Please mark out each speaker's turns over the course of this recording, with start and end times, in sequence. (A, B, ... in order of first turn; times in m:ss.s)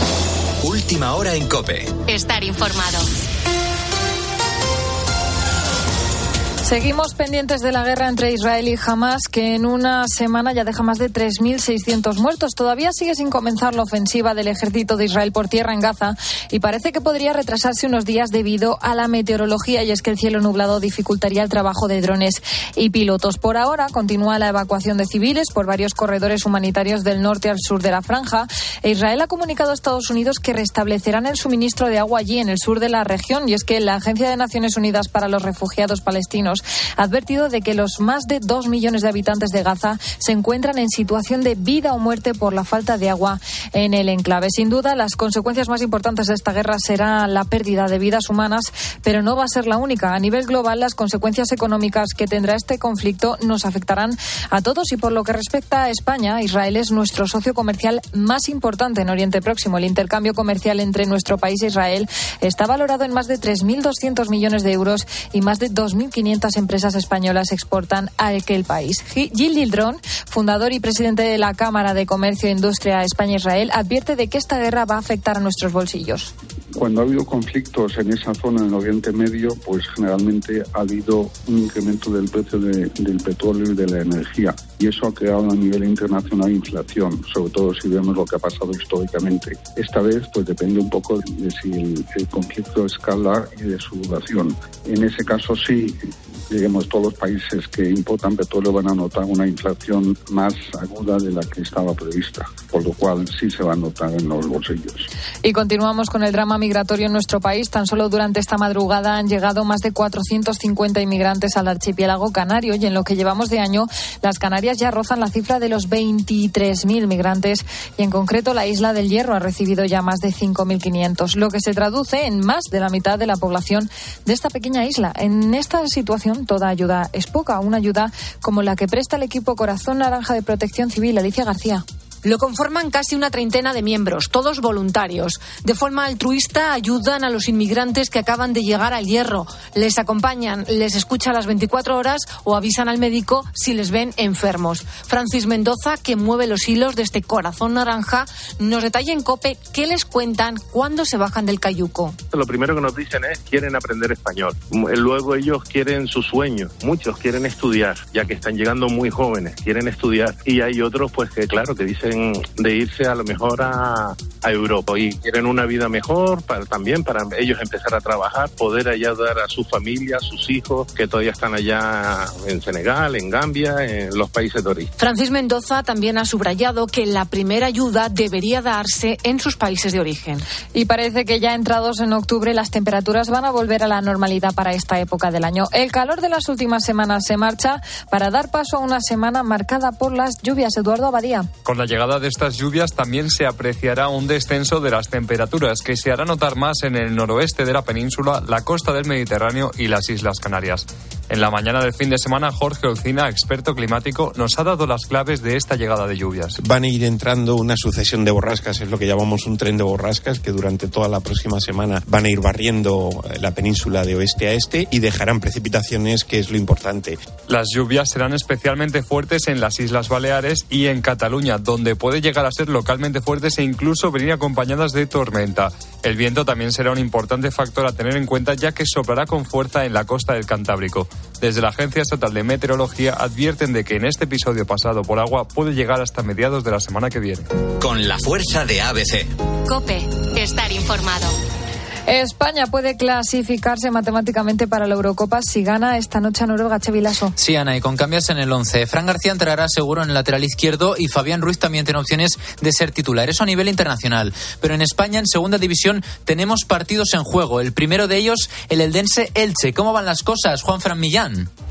0:00.6-0:01.9 A
0:02.1-0:03.1 B
0:06.6-1:16.3 C
1:16.7-1:45.1 D
1:45.4-2:11.8 C
2:12.2-2:32.2 E
2:32.3-2:54.9 F
2:55.0-3:00.4 E
3:00.7-3:11.5 C
3:11.6-3:26.6 G
3:26.6-3:37.2 H
3:37.5-3:57.5 G
3:57.8-3:59.3 A
3:59.7-4:01.3 B
4:02.1-4:07.3 C
4:07.4-4:21.5 I